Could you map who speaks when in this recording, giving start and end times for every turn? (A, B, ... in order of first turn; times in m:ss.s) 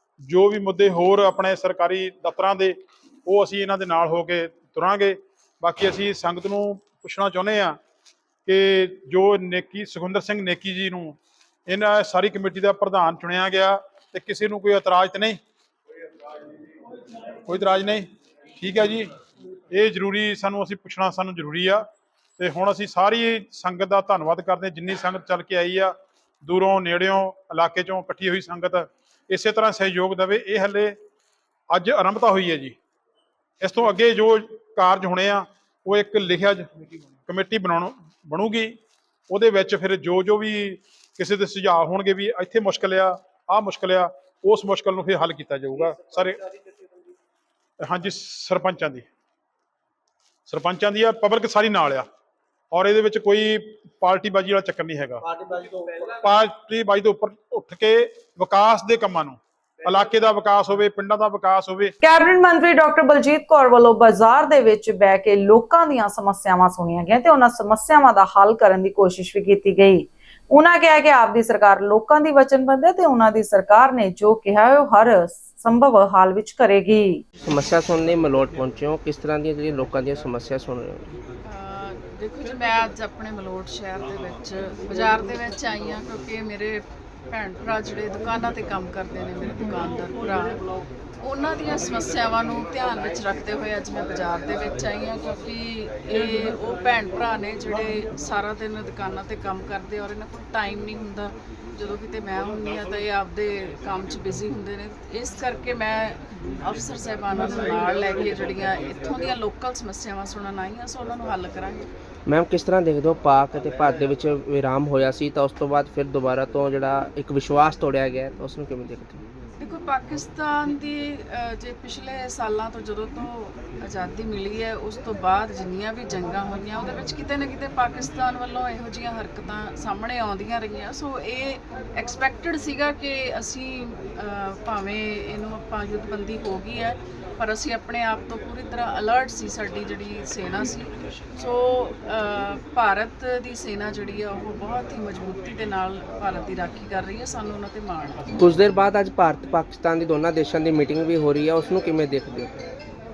0:00.3-0:07.8 A
0:08.5-0:11.2 A
0:11.7-0:15.4 A
0:17.5-0:18.1 A
0:18.6-0:19.1 A
0:19.7-0:21.9 A
0:22.4-0:31.0 A
0:31.7-0:32.8 A
0:33.6-0:36.7 A
0:37.3-0:38.8 A
0:39.3-0:46.4 A
0:47.8-0:49.0 A
0:50.5-0:52.0 A
0:52.7-0:55.2 A
0:56.0-1:01.9 A
1:02.0-1:17.2 B
1:17.5-1:21.0 C
1:21.4-1:30.6 D
1:31.2-1:51.9 D
1:52.3-1:59.2 C
1:59.6-2:28.2 D
2:28.4-2:32.5 C